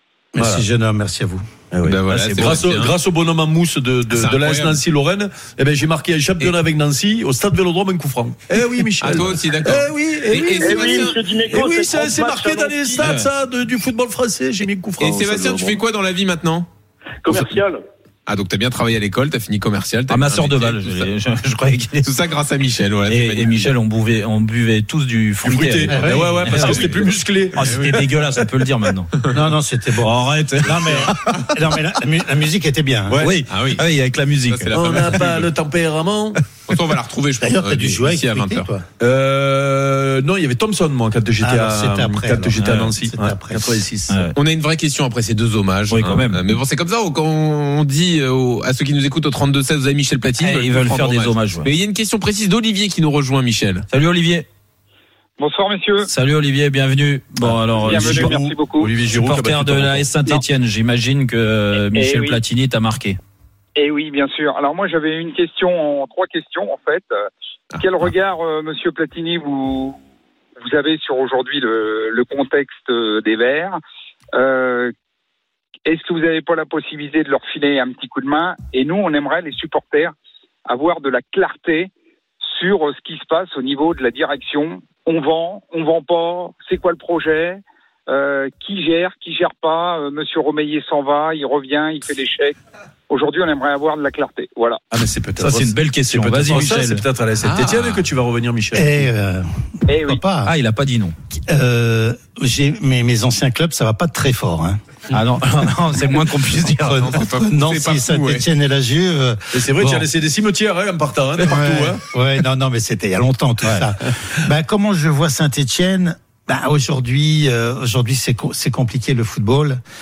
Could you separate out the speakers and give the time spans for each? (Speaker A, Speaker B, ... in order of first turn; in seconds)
Speaker A: 0.3-1.4, 25.9-26.6, 29.3-33.3, 37.4-38.9, 41.4-43.8, 98.7-100.5, 101.3-104.8, 106.6-109.7, 111.4-119.8
Speaker B: 0.4-0.6, 1.7-15.8, 25.4-28.3, 33.1-33.4, 34.7-36.4, 39.0-44.3, 57.4-60.1, 94.9-99.1, 109.5-112.0
Speaker C: 1.8-2.9, 4.1-4.8, 9.0-11.2, 15.0-16.7, 18.3-21.1, 22.0-23.7, 26.6-27.0, 27.6-27.9, 33.5-33.8, 34.5-35.5, 36.7-38.7, 44.4-53.9, 97.4-98.1, 107.0-108.4
Speaker D: 2.1-2.6, 13.0-13.3, 20.1-22.1, 23.1-29.1, 30.0-31.5, 33.2-34.8, 42.6-42.9, 44.1-44.4, 45.9-46.5, 50.4-51.7, 53.9-54.5, 56.0-58.4, 59.1-63.2, 95.4-97.0, 100.4-101.2, 105.1-107.0
Speaker E: 10.6-13.1, 17.2-17.8
Speaker F: 55.4-56.1, 57.8-58.9, 62.0-62.3, 63.8-67.2, 67.8-70.0, 70.6-73.8, 74.3-74.9, 75.9-80.1, 80.7-92.6, 93.1-94.8, 99.9-100.2